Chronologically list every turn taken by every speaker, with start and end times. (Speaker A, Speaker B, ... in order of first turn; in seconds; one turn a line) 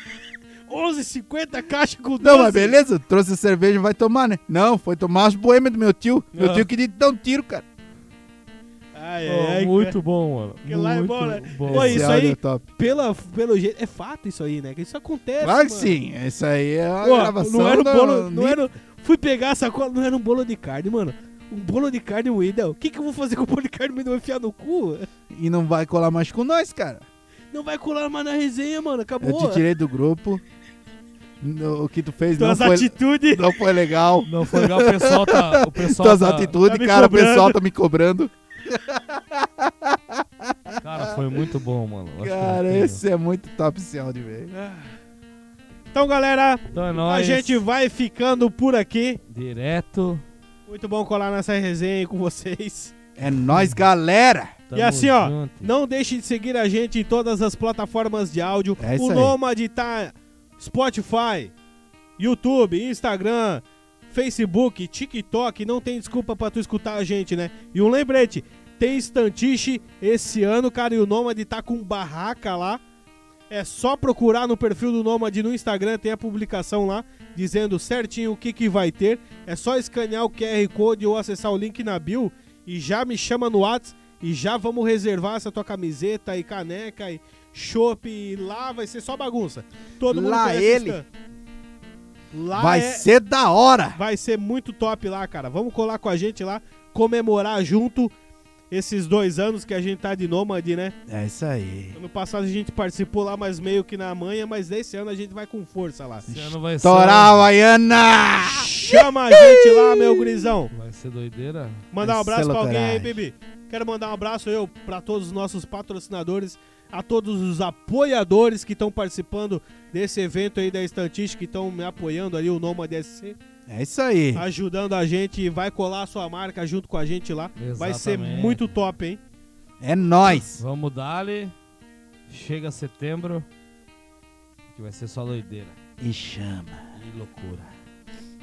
Speaker A: 0.7-2.8
Speaker B: 2.2-7.6
Speaker C: 6.3-6.6
Speaker A: 8.9-9.9
Speaker C: 9.2-12.1
Speaker A: 10.6-15.9
Speaker B: 11.7-12.7
Speaker B: 15.4-18.6
Speaker A: 17.0-25.1
Speaker B: 25.3-27.0
Speaker A: 27.5-29.6
Speaker B: 29.2-30.4
Speaker B: 31.4-41.4
Speaker A: 32.4-33.5
Speaker C: 34.3-36.6
Speaker A: 36.7-37.6
Speaker C: 40.8-43.0
Speaker B: 42.2-44.7
Speaker A: 45.9-49.2
Speaker C: 46.7-47.6
Speaker C: 49.3-50.2
Speaker A: 50.7-52.9
Speaker B: 53.2-54.6
Speaker C: 54.7-55.7
Speaker A: 54.7-61.5
Speaker B: 58.8-59.4
Speaker A: 62.2-72.8
Speaker A: 73.5-91.0
Speaker B: 90.1-91.0
Speaker A: 92.3-93.0
Speaker B: 92.5-94.0
Speaker A: 93.9-98.1
Speaker A: 98.7-100.9
Speaker B: 101.1-102.0
Speaker A: 101.9-106.3
Speaker C: 106.2-107.5
Speaker B: 106.3-110.5
Speaker A: 108.4-110.7
Speaker C: 110.7-111.9
Speaker A: 111.9-123.4
Speaker B: 112.0-113.2
Speaker B: 123.7-124.4
Speaker A: 124.3-129.2
Speaker C: 127.6-128.7
Speaker B: 129.8-130.6
Speaker C: 130.5-131.5
Speaker C: 132.3-133.4
Speaker C: 134.7-135.7
Speaker B: 136.0-136.8
Speaker C: 137.0-137.7